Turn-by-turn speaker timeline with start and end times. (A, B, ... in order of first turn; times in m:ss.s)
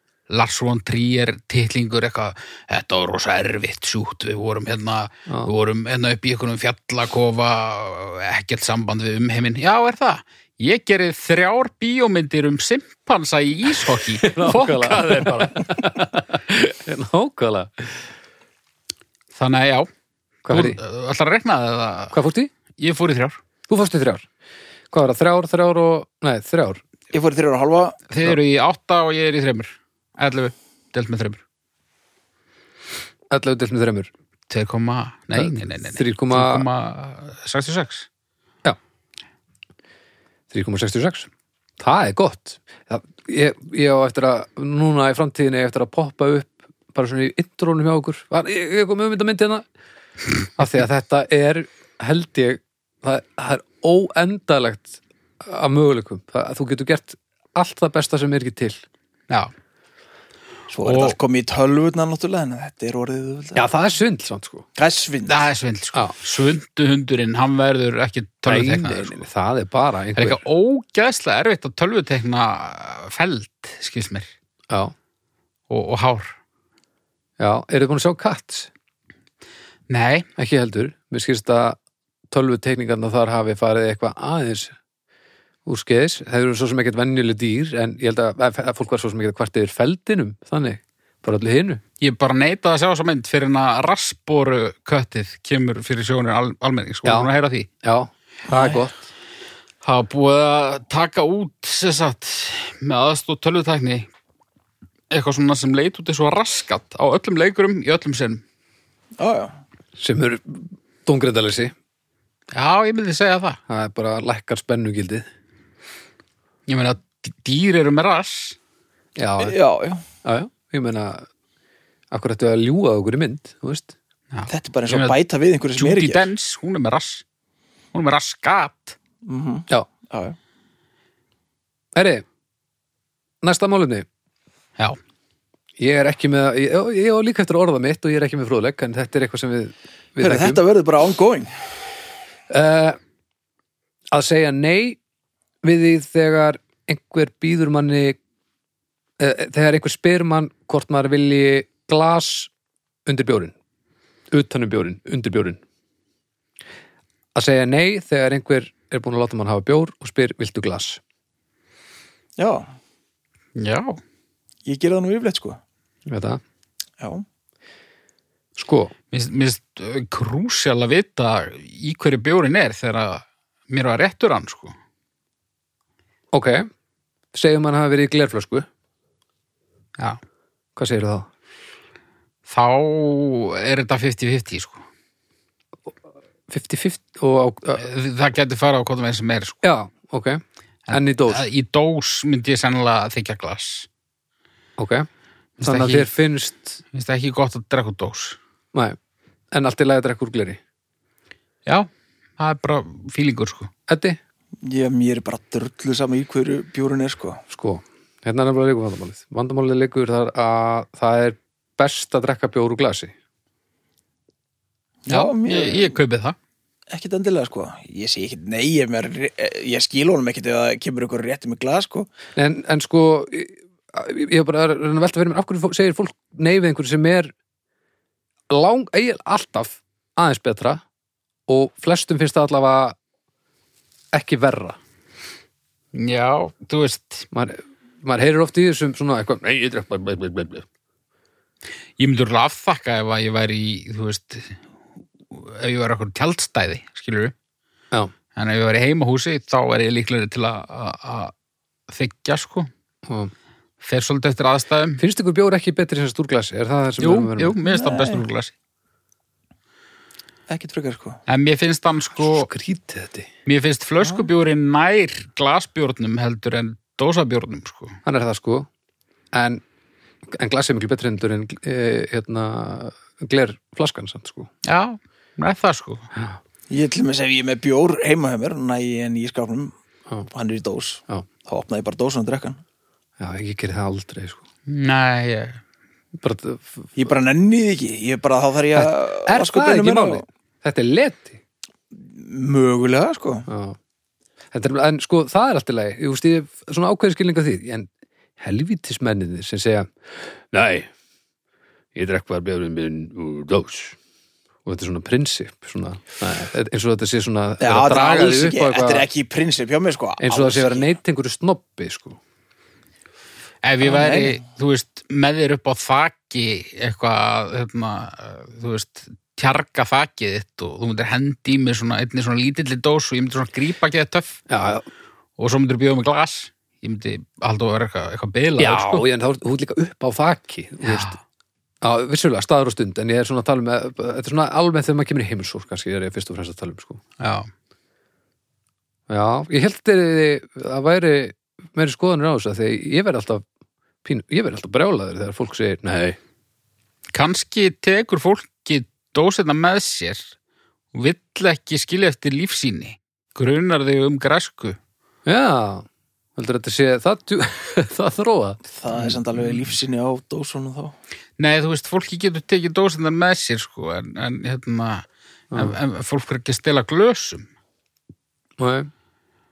0:00.3-0:15.6 A
0:14.0-0:18.1 B
0:19.3-0:19.9 A
0:20.4-0:20.8 B
0:20.5-0:22.2 A
0:22.1-0:22.5 B
0:22.8-0:23.4 A
0:23.7-0:24.2 B
0:24.9-0:26.8 B
0:27.1-0:28.0 C
0:28.1-0:31.4 A
0:33.3-0:34.1 B
0:34.5-0:38.1 A
0:35.4-0:36.6 B
0:40.5-0:49.6 B
0:50.6-0:58.8 B
1:00.7-1:03.6 C
1:00.8-1:01.2 A
1:03.5-1:04.7 B
1:04.8-1:05.4 C
1:05.2-1:09.2 A
1:08.4-1:10.4 B
1:10.2-1:14.3 A
1:15.7-1:16.4 A
1:17.4-1:18.7 B
1:19.9-1:20.3 A
1:20.4-1:21.8 B
1:22.3-1:24.7 B
1:25.6-1:31.8 B
1:32.0-1:37.7 A
1:37.0-1:37.3 B
1:37.8-1:39.0 B
1:38.5-1:38.9 C
1:39.8-1:44.1 A
1:45.1-1:48.4 A
1:49.2-1:49.6 C
1:50.0-1:51.7 B
1:52.5-1:53.6 A
1:53.7-1:55.3 B
1:56.7-1:58.6 A
1:59.2-1:59.6 B
1:59.4-2:00.0 C
2:00.2-2:01.3 B
2:02.1-2:03.9 B
2:04.3-2:05.2 A
2:04.5-2:06.2 C
2:05.8-2:07.2 A
2:07.9-2:09.0 A
2:09.2-2:10.4 C
2:11.9-2:12.2 B
2:13.4-2:14.0 B
2:15.8-2:20.6 B
2:20.2-2:21.5 C
2:22.5-2:23.0 B
2:24.1-2:25.0 B
2:25.6-2:28.2 B
2:29.2-2:32.5 B
2:33.0-2:33.5 B
2:34.3-2:35.6 B
2:37.3-2:41.0 B
2:42.4-2:42.7 C
2:43.6-2:44.0 A
2:44.6-2:45.6 C
2:46.1-2:46.4 B
2:48.6-2:48.9 B
2:49.1-2:54.8 A
2:56.3-2:56.7 B
2:57.3-2:58.7 B
3:00.8-3:01.3 B
3:02.4-3:04.8 A
3:06.5-3:07.8 B
3:07.7-3:09.6 A
3:09.6-3:11.4 B
3:10.9-3:13.9 A
3:14.8-3:15.1 B
3:15.6-3:16.1 A
3:15.6-3:16.8 B
3:16.9-3:18.4 A
3:19.5-3:20.6 B
3:21.6-3:23.7 A
3:23.9-3:24.2 B
3:24.6-3:27.4 C
3:27.5-3:33.1 B
3:35.1-3:35.9 C
3:35.1-3:36.4 A
3:36.9-3:42.1 C
3:42.4-3:47.3 B
3:48.5-3:50.8 B
3:51.5-3:53.0 B
3:54.1-3:54.8 B
3:55.9-3:57.3 A
3:57.3-4:00.6 B
4:02.0-4:04.6 A
4:05.3-4:07.3 A
4:08.4-4:11.3 A
4:11.9-4:12.7 A
4:13.8-4:15.0 A
4:15.0-4:17.6 B
4:17.0-4:18.5 A
4:17.6-4:18.2 C
4:20.5-4:21.2 C
4:21.3-4:22.5 A
4:22.1-4:23.3 B
4:23.4-4:28.0 A
4:28.0-4:28.7 B
4:29.3-4:29.6 B
4:30.3-4:34.5 B
4:34.6-4:36.1 A
4:36.7-4:39.7 C
4:40.3-4:42.6 C
4:43.2-4:44.4 B
4:44.7-4:45.6 A
4:46.2-4:47.1 B
4:47.0-4:50.2 C
4:48.7-4:51.4 B
4:51.9-4:53.5 C
4:53.5-4:53.8 B
4:54.5-4:57.9 B
4:58.4-5:00.9 B
5:01.9-5:04.0 B
5:04.6-5:09.1 B
5:07.6-5:10.9 C
5:10.2-5:12.2 B
5:13.6-5:24.4 A
5:13.8-5:14.4 C
5:24.5-5:24.8 B
5:25.4-5:29.0 A
5:28.6-5:31.2 B
5:30.8-5:31.2 A
5:31.8-5:37.0 B
5:37.2-5:37.5 A
5:39.1-5:43.4 B
5:44.0-5:46.2 B
5:47.1-5:50.3 A
5:50.9-5:54.8 A
5:55.2-5:59.1 B
5:58.7-6:00.9 C
6:01.4-6:07.5 A
6:08.6-6:08.9 B